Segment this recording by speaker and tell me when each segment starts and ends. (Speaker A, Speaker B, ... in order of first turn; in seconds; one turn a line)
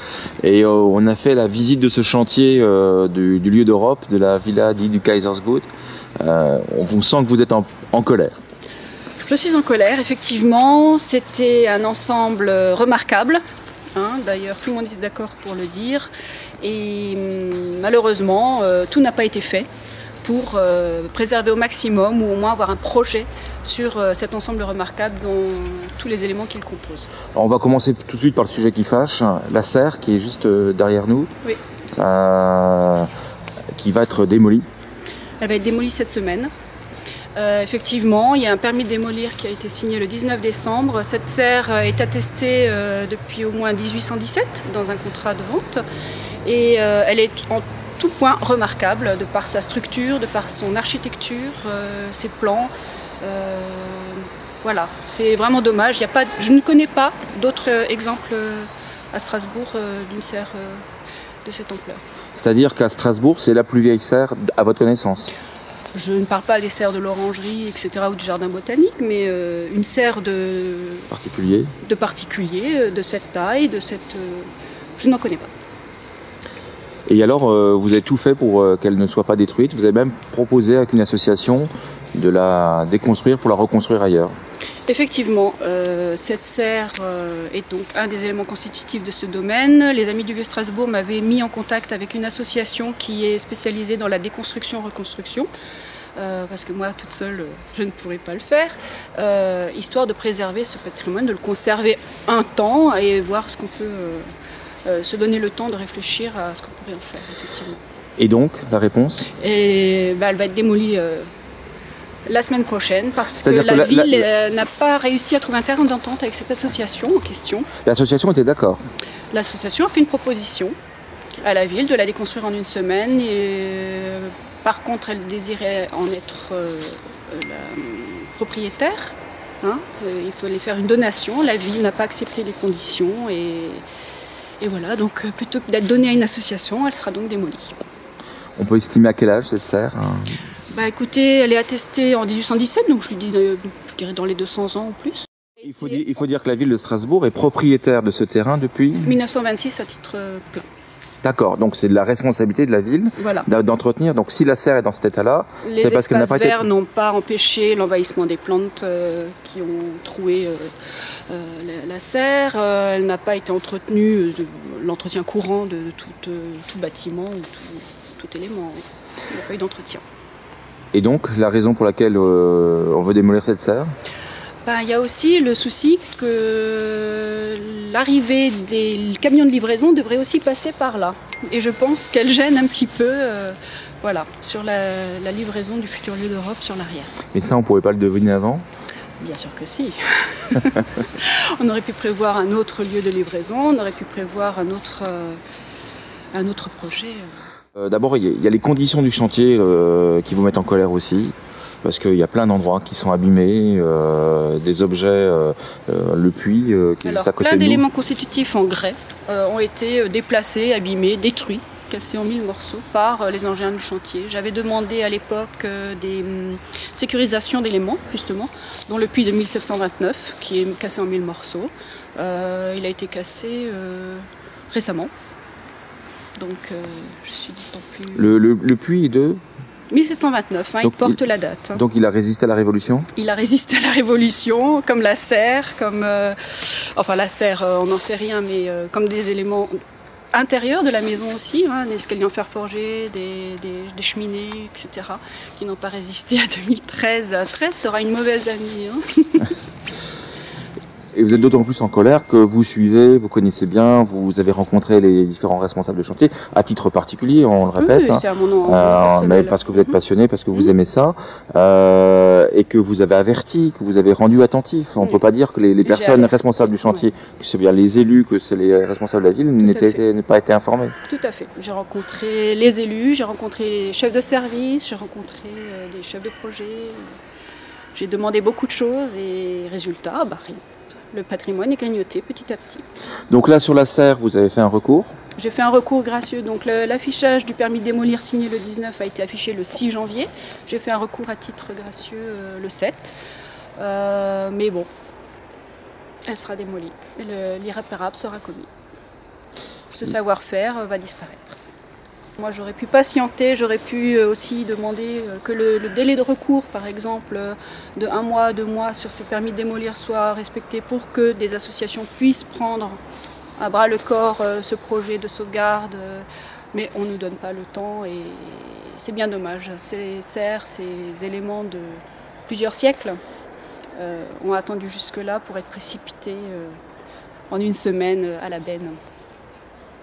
Speaker A: 0.4-5.7
Speaker A: 6.2-8.4
Speaker B: 9.2-13.4
Speaker B: 13.9-19.7
Speaker B: 20.2-27.1
Speaker A: 27.3-31.3
Speaker A: 32.0-33.1
Speaker A: 33.7-34.7
Speaker B: 35.4-36.5
Speaker B: 37.4-45.8
Speaker B: 46.4-60.9
Speaker B: 61.4-62.0
Speaker A: 62.3-65.3
Speaker B: 65.9-71.1
Speaker A: 71.1-71.7
Speaker B: 71.8-75.5
Speaker A: 77.1-84.3
Speaker B: 84.9-95.5
Speaker B: 96.2-104.3
Speaker B: 104.8-107.8
Speaker A: 108.2-109.3
Speaker B: 109.3-111.3
Speaker B: 112.2-117.7
Speaker A: 113.3-114.3
Speaker A: 117.8-118.8
Speaker B: 119.3-120.7
Speaker B: 121.4-133.8
Speaker B: 134.6-137.8
Speaker A: 138.6-140.4
Speaker B: 140.7-146.0
Speaker A: 145.6-149.2
Speaker B: 149.0-150.7
Speaker A: 151.2-156.7
Speaker B: 153.2-153.5
Speaker B: 155.6-170.0
Speaker A: 170.9-173.9
Speaker B: 174.6-187.2
Speaker A: 187.3-188.7
Speaker B: 189.2-195.4
Speaker B: 196.3-197.4
Speaker A: 197.8-207.8
Speaker B: 207.0-225.1
Speaker B: 226.4-228.4
Speaker A: 228.1-229.4
Speaker B: 229.9-231.8
Speaker A: 230.8-231.2
Speaker A: 231.7-233.1
Speaker B: 233.1-239.8
Speaker B: 240.3-249.6
Speaker A: 251.1-270.9
Speaker B: 257.8-260.0
Speaker B: 265.8-267.1
Speaker B: 269.6-270.0
Speaker B: 271.1-277.1
Speaker B: 277.9-282.8
Speaker A: 283.3-285.1
Speaker B: 285.4-293.2
Speaker B: 293.8-294.9
Speaker B: 296.3-298.7
Speaker B: 299.9-301.6
Speaker B: 302.4-313.0
Speaker B: 313.6-323.2
Speaker B: 323.9-326.8
Speaker B: 327.5-329.0